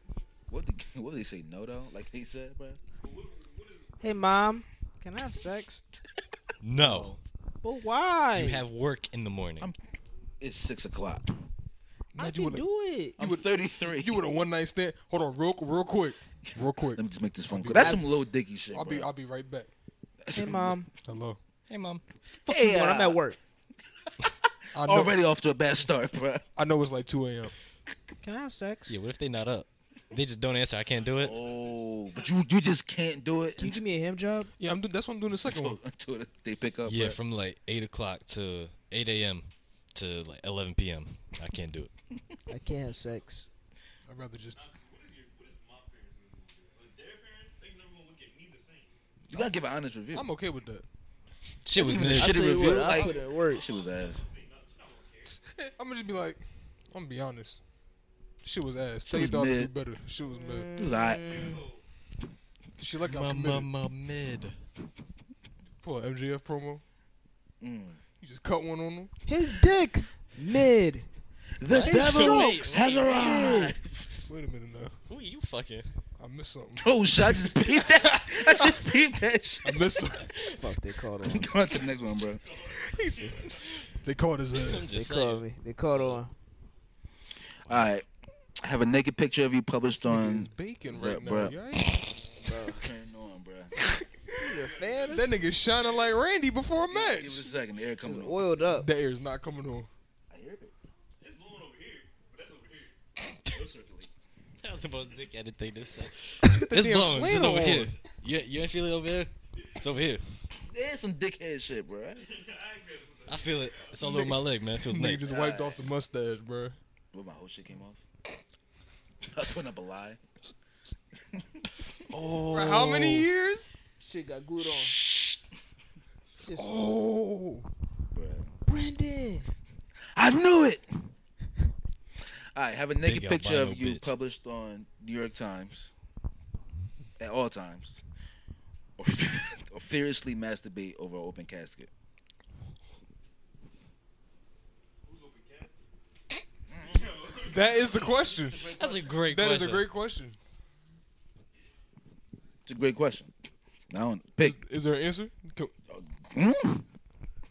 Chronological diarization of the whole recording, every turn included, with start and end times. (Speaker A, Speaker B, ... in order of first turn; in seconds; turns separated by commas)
Speaker A: 0.5-2.8, Speaker B: 3.0-4.3, Speaker C: 4.0-5.8, Speaker D: 6.6-7.2, Speaker C: 6.8-8.6, Speaker D: 8.3-9.7, Speaker A: 10.4-11.4, Speaker E: 12.1-12.7, Speaker C: 12.2-13.2, Speaker A: 13.2-14.3, Speaker E: 13.2-18.1, Speaker A: 16.9-19.1, Speaker C: 17.7-18.0, Speaker E: 18.7-19.7, Speaker A: 20.2-20.8, Speaker C: 20.3-20.9, Speaker E: 21.0-21.4, Speaker D: 21.7-22.0, Speaker C: 22.4-23.4, Speaker A: 22.4-23.2, Speaker A: 24.2-26.5, Speaker E: 24.7-25.2, Speaker E: 26.6-27.5, Speaker C: 28.2-29.0, Speaker D: 28.9-31.4, Speaker B: 30.9-32.5, Speaker A: 31.2-33.8, Speaker C: 33.6-34.5, Speaker E: 34.6-35.8, Speaker A: 35.4-37.2, Speaker D: 36.8-41.9, Speaker C: 42.5-43.5, Speaker E: 44.1-44.6, Speaker B: 44.5-48.9, Speaker E: 49.3-49.5, Speaker A: 49.3-50.3, Speaker E: 50.1-50.9, Speaker D: 51.6-52.7, Speaker A: 51.7-54.2, Speaker C: 51.9-53.7, Speaker B: 52.7-55.4, Speaker E: 55.3-57.6, Speaker E: 58.4-60.7, Speaker A: 59.0-59.7, Speaker C: 60.3-61.6, Speaker A: 60.7-61.6, Speaker B: 61.1-61.8, Speaker E: 62.8-63.7, Speaker D: 63.0-64.6, Speaker E: 65.8-66.8, Speaker A: 67.6-68.0, Speaker E: 68.2-69.1, Speaker C: 69.2-71.1, Speaker A: 71.6-74.1, Speaker D: 71.7-73.7, Speaker C: 71.8-73.7, Speaker E: 74.2-75.0, Speaker D: 75.0-75.9, Speaker E: 76.2-76.9, Speaker A: 76.8-80.0, Speaker E: 79.6-80.3, Speaker D: 80.3-80.6, Speaker C: 80.3-81.5, Speaker A: 81.2-82.4, Speaker B: 82.4-83.9, Speaker E: 82.8-84.9, Speaker D: 84.5-86.2, Speaker C: 84.8-86.3, Speaker A: 87.7-88.1, Speaker A: 88.6-91.8, Speaker E: 90.0-92.0, Speaker C: 92.4-92.8, Speaker A: 92.5-93.8, Speaker C: 94.3-95.3, Speaker B: 94.3-96.2, Speaker E: 95.1-97.5, Speaker A: 96.8-98.5, Speaker C: 98.0-98.9, Speaker E: 98.7-99.9, Speaker A: 100.3-100.7, Speaker B: 101.2-103.0, Speaker D: 103.3-103.6, Speaker A: 103.4-104.1, Speaker D: 104.6-110.2, Speaker E: 106.5-107.9, Speaker A: 110.6-112.2, Speaker B: 112.2-114.3, Speaker D: 113.3-115.3, Speaker E: 114.0-116.8, Speaker A: 115.2-115.8, Speaker A: 117.1-118.0, Speaker A: 119.3-120.2, Speaker A: 121.3-121.7, Speaker D: 122.1-123.3, Speaker E: 122.4-123.7, Speaker C: 124.0-125.0, Speaker A: 124.6-125.4, Speaker C: 126.4-126.9, Speaker E: 126.5-127.7, Speaker A: 128.1-128.5, Speaker C: 128.7-129.5, Speaker A: 130.1-131.1, Speaker A: 132.5-135.9, Speaker D: 133.0-134.1, Speaker A: 137.2-138.0, Speaker A: 139.0-141.9, Speaker B: 145.0-145.9, Speaker A: 146.7-147.1, Speaker B: 146.7-149.1, Speaker E: 147.4-150.4, Speaker D: 148.6-149.9, Speaker A: 152.7-153.3, Speaker A: 153.9-154.6, Speaker E: 154.4-155.7, Speaker A: 155.9-156.9